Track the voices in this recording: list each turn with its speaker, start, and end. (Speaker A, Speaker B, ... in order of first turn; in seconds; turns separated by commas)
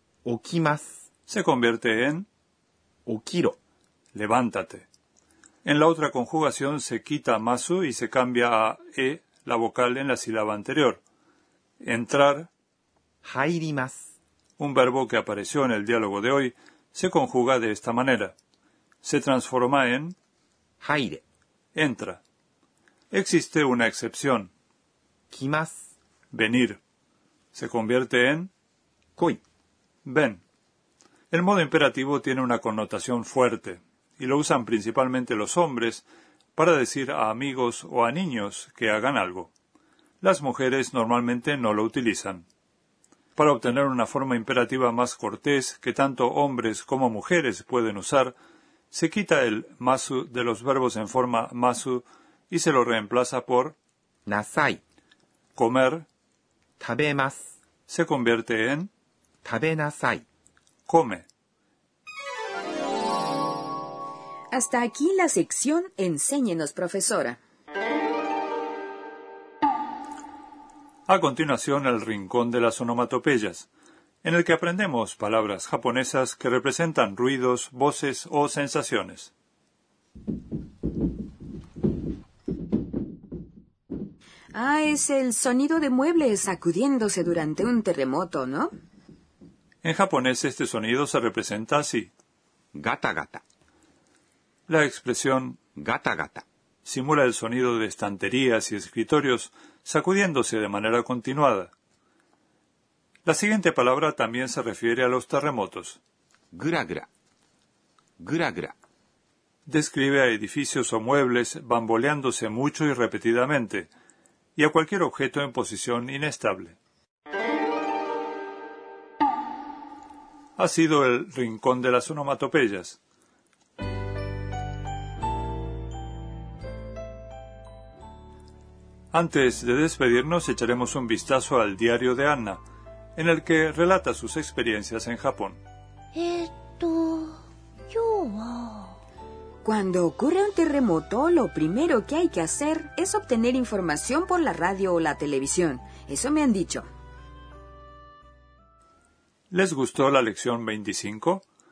Speaker A: 0.2-0.9, Speaker B: 1.3-2.3, Speaker A: 3.1-3.6, Speaker B: 4.1-4.9, Speaker B: 5.6-11.0, Speaker B: 11.8-12.5, Speaker A: 13.2-14.1, Speaker B: 14.6-18.3, Speaker B: 19.0-20.1, Speaker A: 20.8-21.2, Speaker B: 21.7-22.2, Speaker B: 23.1-24.5, Speaker A: 25.3-25.8, Speaker B: 26.3-26.8, Speaker B: 27.5-28.5, Speaker B: 30.0-30.4, Speaker B: 31.3-36.0, Speaker B: 36.5-39.5, Speaker B: 40.2-42.4, Speaker B: 43.4-48.3, Speaker B: 48.9-53.8, Speaker A: 54.3-54.8, Speaker B: 55.5-56.1, Speaker A: 56.8-57.5, Speaker B: 57.9-58.9, Speaker A: 59.4-60.2, Speaker B: 60.9-61.2, Speaker C: 64.5-67.4, Speaker B: 71.1-73.7, Speaker B: 74.2-79.3, Speaker C: 84.5-88.7, Speaker B: 89.8-92.1, Speaker A: 92.7-93.4, Speaker B: 94.7-95.6, Speaker A: 95.8-96.4, Speaker B: 96.8-101.7, Speaker B: 103.2-106.0, Speaker A: 106.5-107.1, Speaker A: 108.2-108.7, Speaker B: 109.7-113.9, Speaker B: 114.5-116.8, Speaker B: 120.6-123.0, Speaker B: 129.1-132.6, Speaker B: 133.2-135.6, Speaker D: 136.1-138.9, Speaker C: 139.6-146.8, Speaker B: 149.5-151.4